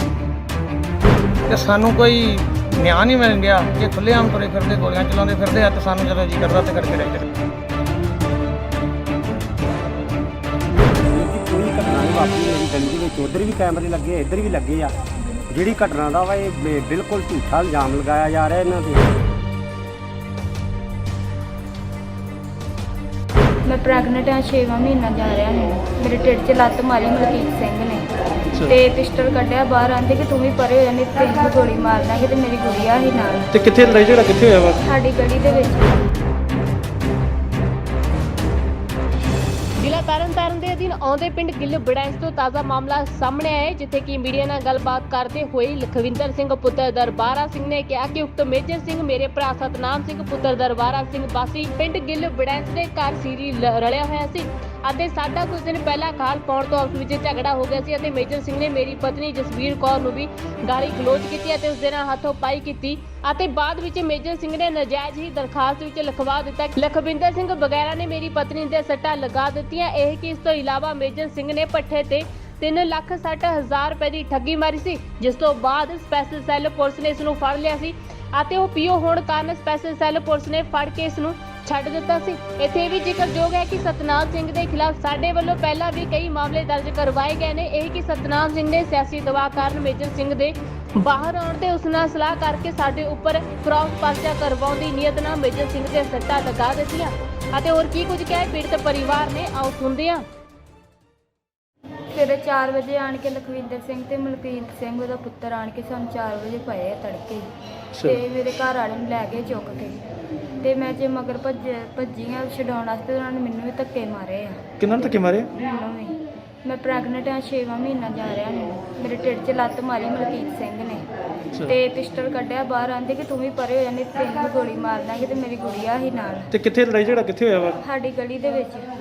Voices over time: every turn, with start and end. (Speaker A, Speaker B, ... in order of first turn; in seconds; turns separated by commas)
Speaker A: 1.5-7.2, Speaker B: 11.1-14.9, Speaker B: 15.5-19.1, Speaker C: 23.6-28.1, Speaker C: 28.6-33.5, Speaker D: 33.5-34.8, Speaker C: 34.8-36.0, Speaker E: 39.8-100.2, Speaker C: 102.1-107.5, Speaker D: 107.9-108.2, Speaker C: 108.0-110.0, Speaker C: 110.6-114.6, Speaker D: 114.8-115.5, Speaker C: 115.5-121.0, Speaker C: 121.7-126.5, Speaker D: 126.5-127.8, Speaker C: 127.8-128.9